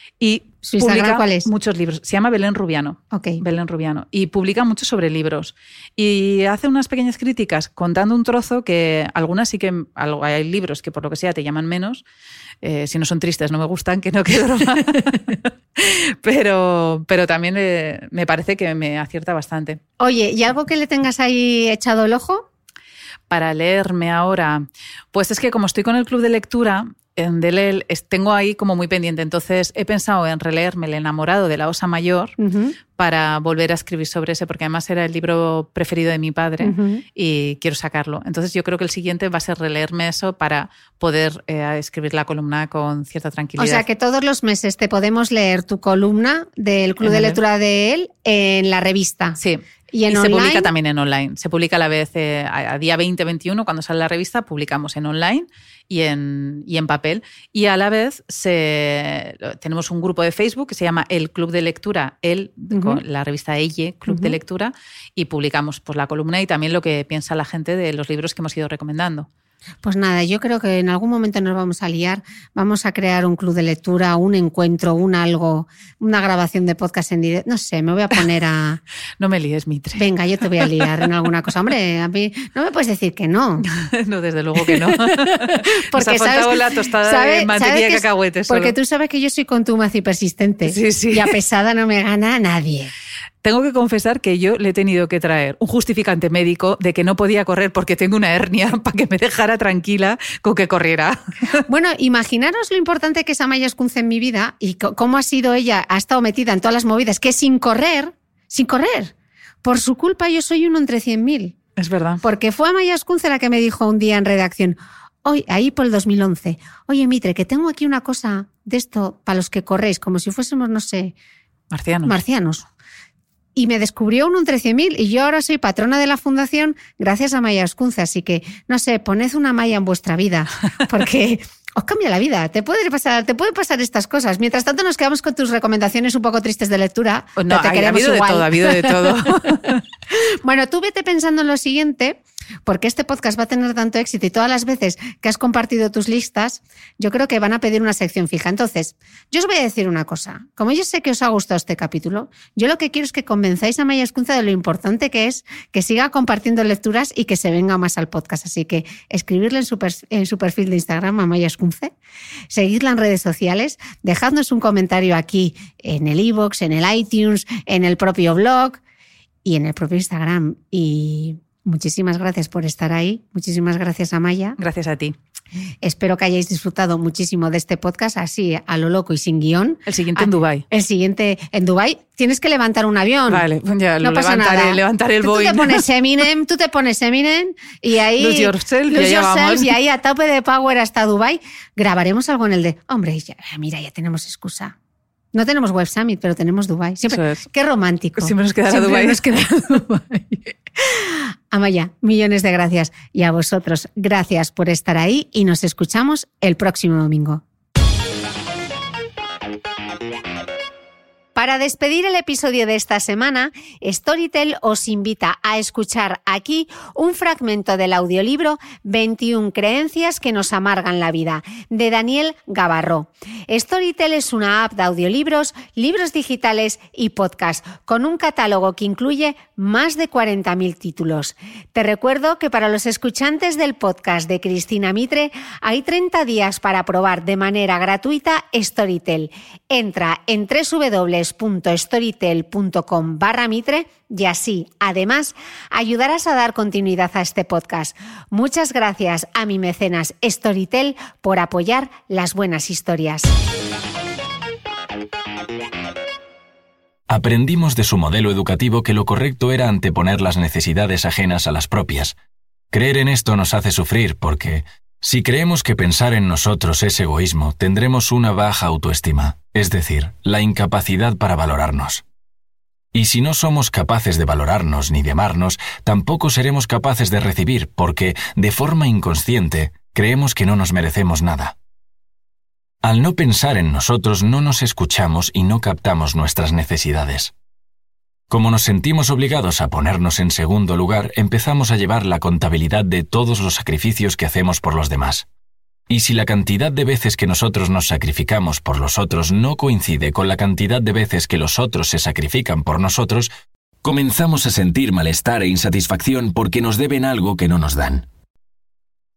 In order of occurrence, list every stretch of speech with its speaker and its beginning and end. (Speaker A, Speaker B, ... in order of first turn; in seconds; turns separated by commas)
Speaker A: 0.2-12.0, Speaker B: 0.6-1.5, Speaker B: 3.1-3.4, Speaker A: 12.6-19.8, Speaker B: 20.0-22.4, Speaker A: 23.3-32.3, Speaker B: 32.4-32.8, Speaker A: 33.0-43.9, Speaker B: 36.6-37.0, Speaker B: 43.6-49.4, Speaker A: 47.0-47.4, Speaker A: 49.4-69.3, Speaker B: 49.9-50.7, Speaker B: 62.7-63.0, Speaker B: 64.1-64.3, Speaker B: 69.8-78.8, Speaker A: 79.2-80.1, Speaker B: 80.0-83.7, Speaker A: 80.6-81.0, Speaker A: 83.6-88.8, Speaker B: 84.7-92.9, Speaker A: 90.7-91.4, Speaker A: 93.4-101.6, Speaker B: 101.7-109.1, Speaker B: 109.6-111.5, Speaker A: 111.8-112.2, Speaker B: 112.2-121.2, Speaker A: 121.7-122.2, Speaker B: 122.1-122.7, Speaker B: 123.5-139.2, Speaker A: 137.4-139.8, Speaker B: 140.1-161.9, Speaker B: 162.5-168.8, Speaker B: 169.4-174.6, Speaker A: 174.6-175.2, Speaker B: 175.8-183.4, Speaker A: 179.9-180.7, Speaker A: 183.3-185.9, Speaker B: 184.0-194.8, Speaker A: 188.2-189.7, Speaker B: 195.3-207.4, Speaker A: 197.1-197.4, Speaker A: 198.2-199.4, Speaker B: 211.3-253.3, Speaker C: 257.1-262.1, Speaker C: 262.7-272.0, Speaker C: 272.9-281.6, Speaker C: 282.8-287.3, Speaker C: 288.3-295.3, Speaker C: 295.9-303.3, Speaker C: 303.8-308.1